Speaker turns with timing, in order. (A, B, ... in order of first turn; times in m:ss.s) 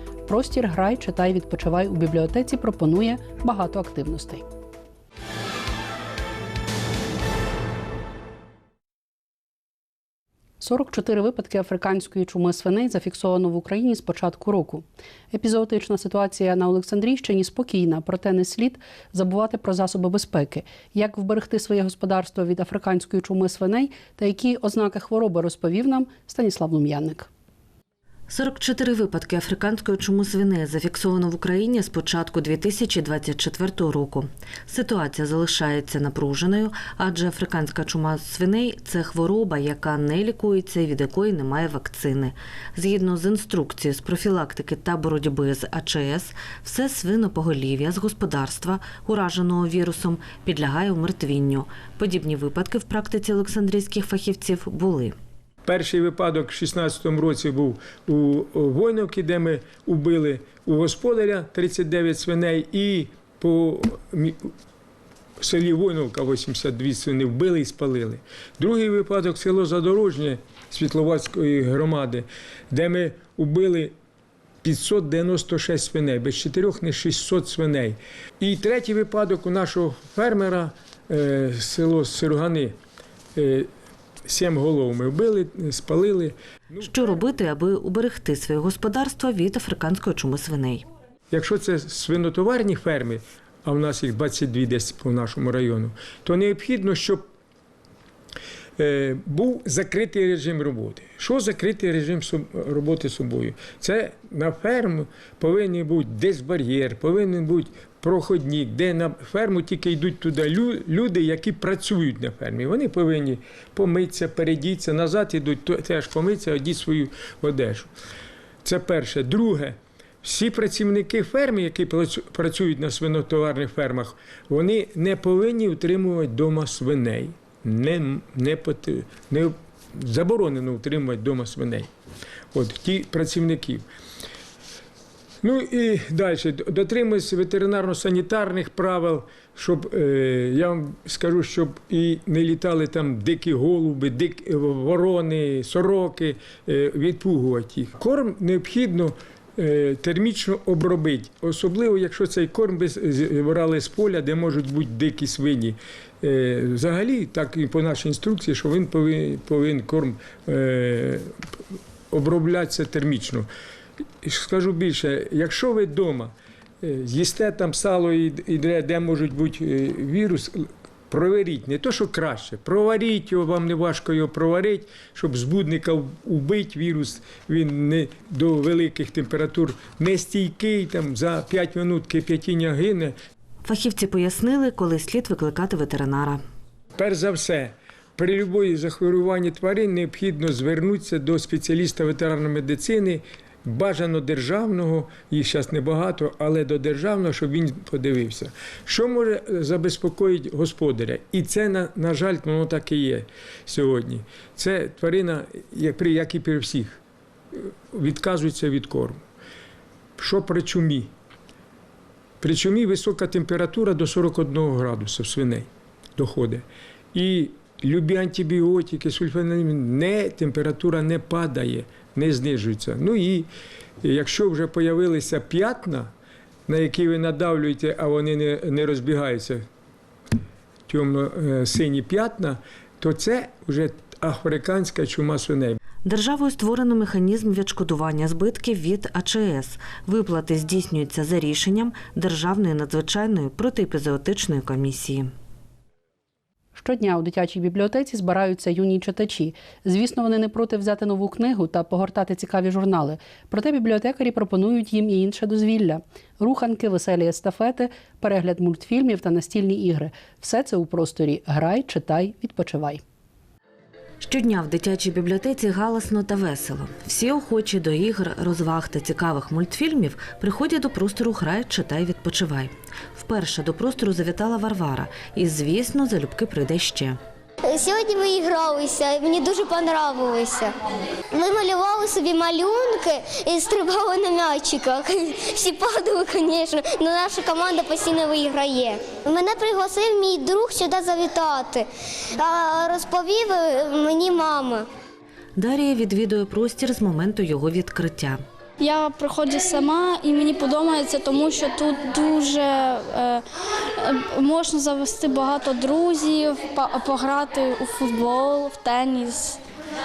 0:00.2-0:04.4 A
0:10.6-0:27.3 A
0:28.3-0:55.1 B
0:55.6-1:04.5 C
1:05.4-1:13.9 C
1:14.6-1:22.8 C
1:23.4-1:23.7 C
1:24.2-1:26.8 C
1:26.8-1:30.8 B
1:31.3-1:37.2 C
1:38.8-1:57.9 C
1:58.6-2:11.9 C
2:12.5-2:13.8 C
2:15.4-2:41.3 C
2:42.1-2:43.5 C
2:44.2-3:03.1 C
3:03.6-3:06.4 B
3:07.0-3:27.0 C
3:27.5-3:29.2 C
3:30.2-3:31.1 C
3:32.4-3:43.5 C
3:44.0-3:46.1 C
3:46.7-3:49.6 C
3:50.9-3:55.8 C
3:56.0-4:05.3 B
4:06.7-4:23.0 A
4:24.2-4:37.2 B
4:37.6-4:40.7 D
4:41.3-4:54.9 D
4:55.6-4:58.4 B
4:58.8-5:03.4 E
5:04.0-5:09.6 E